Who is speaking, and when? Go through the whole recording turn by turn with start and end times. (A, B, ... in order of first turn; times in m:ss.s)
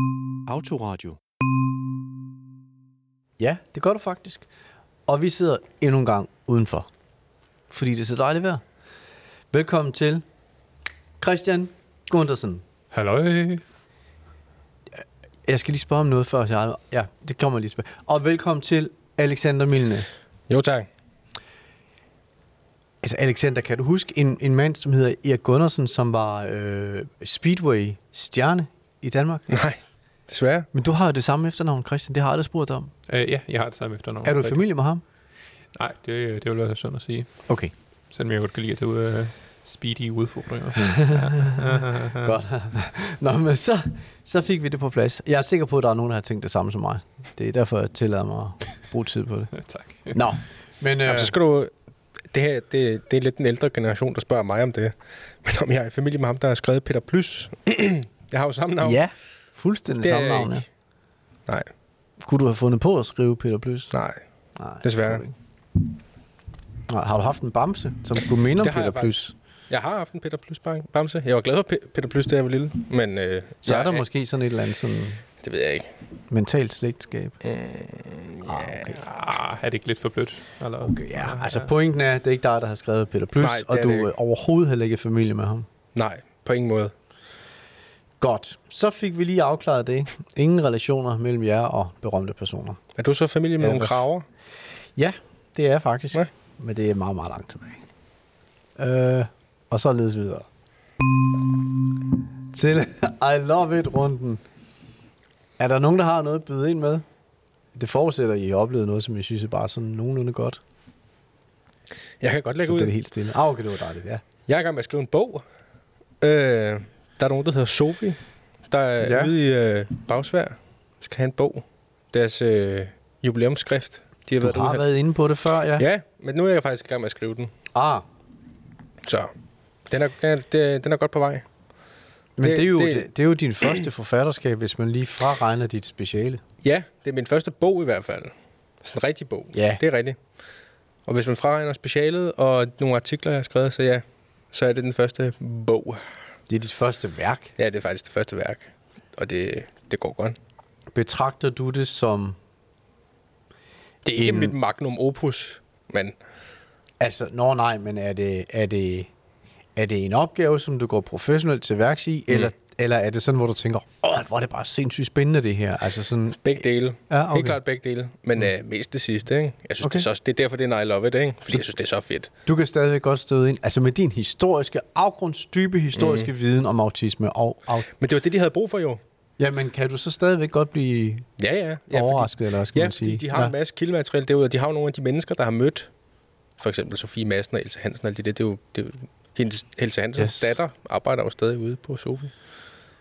0:00.5-0:01.2 A
0:03.4-0:04.5 A
0:05.1-0:06.9 A
0:07.7-0:08.6 A
0:09.5-0:10.2 A
0:11.2-0:12.6 A
0:12.9-0:13.6 B
0:14.9-0:20.1 A
0:20.5-0:20.9 C
0:23.0-0:29.5 A
0:29.5-0:30.7 C
0:30.7-0:32.9 A
0:33.1-0:34.7 B
0:34.2-0:35.0 A
0:35.7-0:42.3 B
0:37.5-0:37.7 A
0:40.8-0:51.4 A
0:49.6-0:50.2 B
0:51.0-0:59.0 C
0:58.8-1:00.7 A
1:00.0-1:00.6 C
1:01.5-1:01.7 C
1:02.2-1:04.0 A
1:03.9-1:04.3 C
1:04.6-1:05.4 A
1:04.8-1:05.2 C
1:06.9-1:09.3 A
1:08.6-1:14.0 C
1:13.6-1:15.3 A
1:15.4-1:16.0 C
1:16.3-1:17.4 A
1:17.4-1:18.9 C
1:18.4-1:19.1 A
1:19.0-1:21.7 B
1:20.8-1:25.7 A
1:23.4-1:24.1 C
1:26.0-1:27.0 C
1:28.2-1:32.8 A
1:33.0-1:34.2 C
1:33.6-1:34.1 A
1:35.0-1:37.9 A
1:38.8-1:40.5 A
1:42.5-1:44.4 A
1:45.6-1:47.1 A
1:47.7-1:50.6 A
1:52.2-1:52.9 C
1:52.6-1:54.2 A
1:54.5-1:55.5 C
1:56.2-2:04.8 C
1:59.0-1:59.3 A
2:04.4-2:05.9 A
2:05.8-2:07.5 C
2:07.7-2:08.0 A
2:09.0-2:09.3 C
2:09.9-2:11.5 C
2:12.4-2:16.4 A
2:12.4-2:13.1 C
2:16.6-2:20.4 C
2:19.5-2:19.8 A
2:21.1-2:26.1 C
2:26.5-2:27.6 A
2:27.6-2:30.4 C
2:30.9-2:32.4 A
2:34.0-2:36.2 C
2:34.2-2:34.6 A
2:37.0-2:39.1 A
2:39.8-2:47.6 A
2:46.4-2:52.3 C
2:49.8-2:50.1 A
2:52.4-2:57.9 A
2:56.0-2:56.3 C
2:58.0-2:59.0 C
2:59.4-3:01.3 A
3:01.4-3:06.0 C
3:01.9-3:03.6 A
3:06.5-3:12.8 C
3:10.2-3:10.6 A